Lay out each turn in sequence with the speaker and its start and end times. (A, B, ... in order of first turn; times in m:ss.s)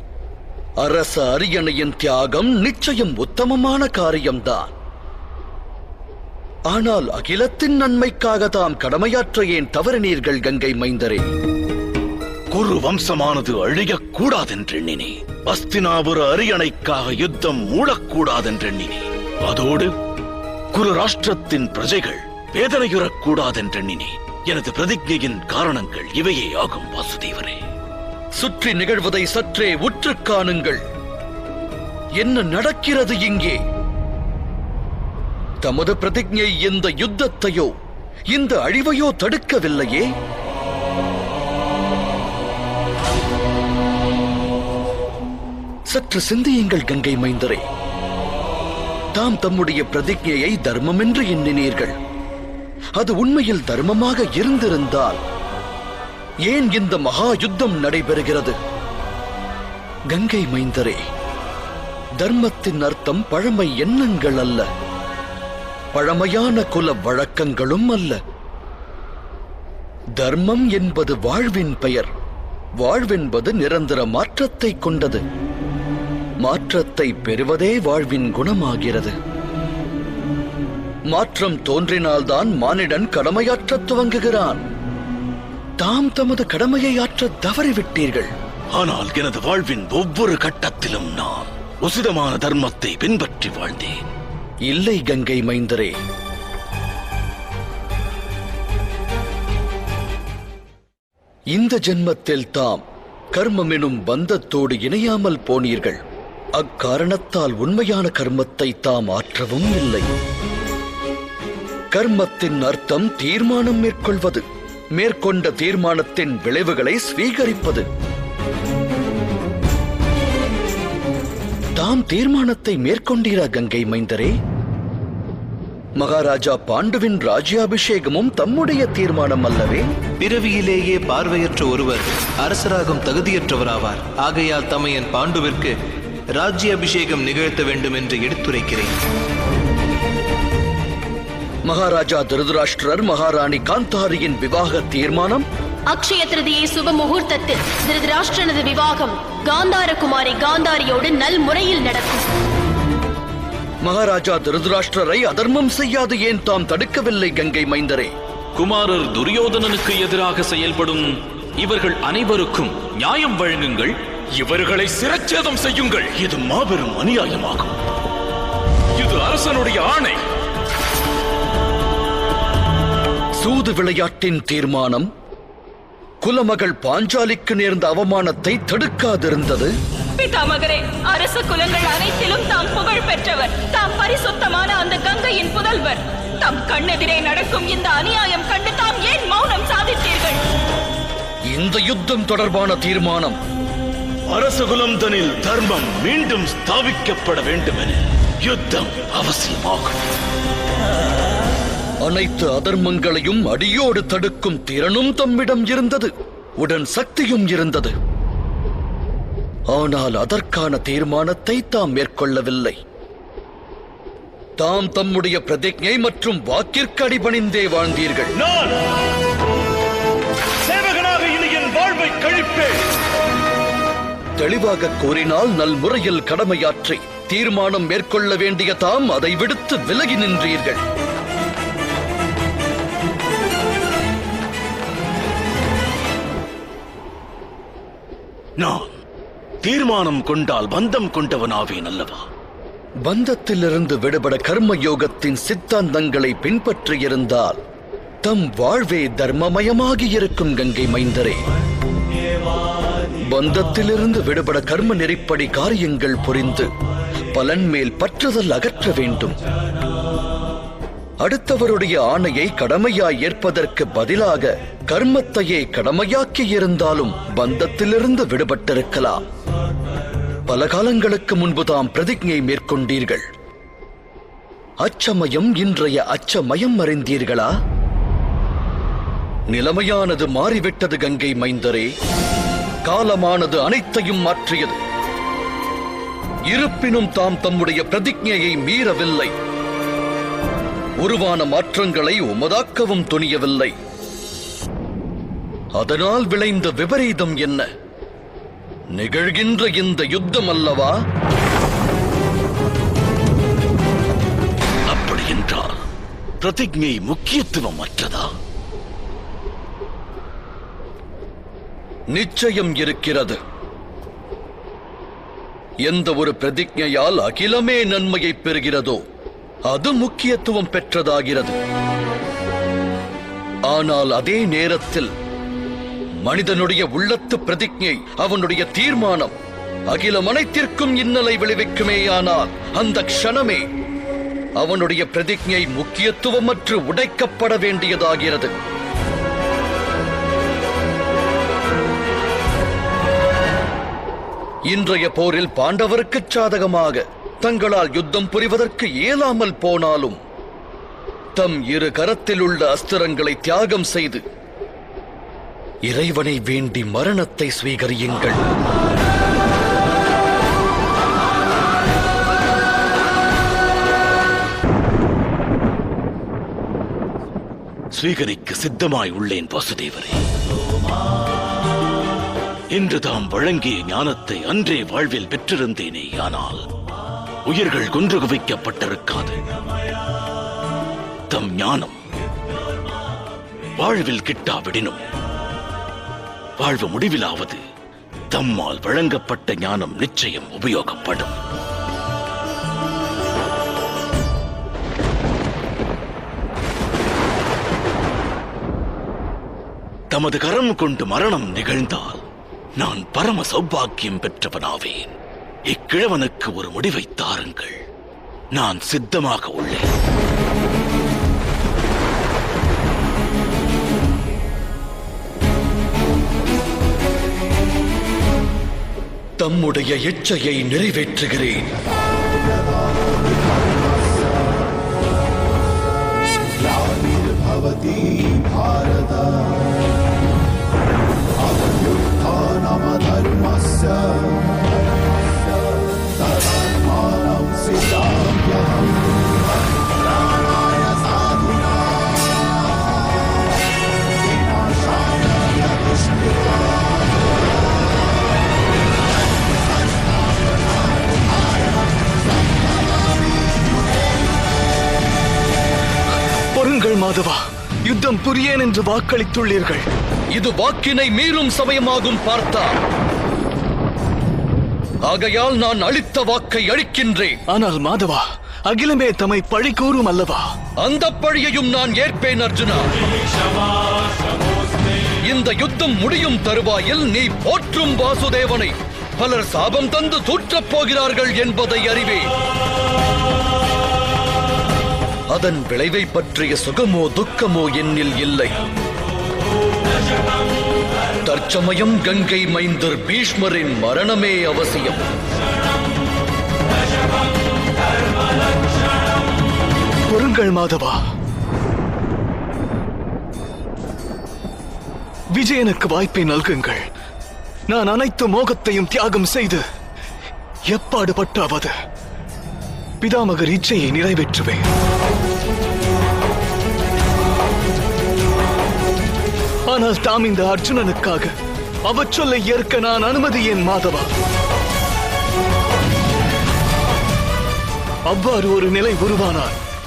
0:00.8-0:04.7 A
0:06.7-0:11.2 A
0:12.5-0:19.9 B
0:20.7-0:27.6 B
0:28.4-0:30.8 A
0:32.2-0:33.6 A
0:35.6-0:37.7 A
0:38.3-0:40.1 A
0:45.9-0:47.6 A
0:49.2-0:52.0 A
0:53.0-0:55.2 A
0:56.5-0:58.6 A
1:00.1-1:01.0 A
1:02.2-1:04.7 A
1:05.9-1:08.2 A
1:10.2-1:12.1 A
1:12.8-1:15.2 A
1:16.4-1:19.2 A
1:21.1-1:24.6 A
1:25.8-1:28.3 A
1:28.7-1:34.1 B
1:34.7-1:35.9 A
1:41.6-1:42.8 A
1:43.3-1:46.0 A
1:46.6-1:50.1 A
1:51.9-1:54.4 A
1:55.0-1:57.8 A
2:01.8-2:04.3 A
2:06.0-2:09.9 A
2:10.2-2:15.8 C
2:16.4-2:19.0 C
2:21.7-2:25.4 A
2:25.9-2:32.3 D
2:33.8-2:38.1 A
2:38.6-2:46.1 E
2:46.1-2:47.8 B
2:49.0-2:50.2 E
2:53.4-2:55.1 A
2:56.2-2:59.7 A
3:00.2-3:10.4 F
3:11.5-3:13.4 A
3:14.3-3:20.0 B
3:22.0-3:27.9 A
3:29.7-3:32.8 A
3:34.6-3:38.3 A
3:38.4-3:38.7 B
3:40.7-3:42.7 B
3:44.4-3:50.8 A
3:58.6-3:59.0 B
3:59.6-4:02.2 B
4:03.1-4:07.6 A
4:08.2-4:11.4 A
4:13.3-4:16.7 A
4:17.3-4:19.4 A
4:21.2-4:29.2 A
4:30.5-4:33.3 A
4:34.8-4:37.5 A
4:39.5-4:41.9 A
4:42.8-4:44.8 A
4:46.5-4:49.3 A
4:51.0-4:53.7 A
4:55.8-4:57.7 A
4:59.0-5:01.0 A
5:04.9-5:05.7 B
5:06.4-5:08.3 B
5:12.2-5:13.4 A
5:15.9-5:19.0 A
5:19.7-5:21.6 A
5:23.7-5:25.1 A
5:26.2-5:29.3 A
5:29.9-5:33.6 A
5:34.6-5:38.5 A
5:44.7-5:50.2 A
5:51.4-5:54.2 A
5:55.9-5:58.4 A
6:07.9-6:10.2 B
6:12.7-6:16.6 B
6:17.5-6:19.4 B
6:21.3-6:22.0 B
6:23.8-6:25.0 B
6:26.6-6:27.6 B
6:28.3-6:31.4 B
6:40.1-6:42.2 B
6:42.8-6:45.1 B
6:45.7-6:47.8 B
6:48.6-6:49.9 B
6:59.4-7:01.7 A
7:36.5-7:39.8 G
7:40.3-7:42.7 A
7:45.1-7:47.4 A
7:47.5-7:50.4 G
7:50.8-7:52.9 A
7:55.2-8:02.3 A
8:05.3-8:08.6 A
8:11.2-8:15.0 A
8:20.1-8:21.0 G
8:25.3-8:26.9 G
8:27.7-8:29.6 G
8:30.7-8:31.7 G
8:33.0-8:34.6 G
8:39.7-8:41.3 G
8:41.9-8:44.1 G
8:48.1-8:49.6 G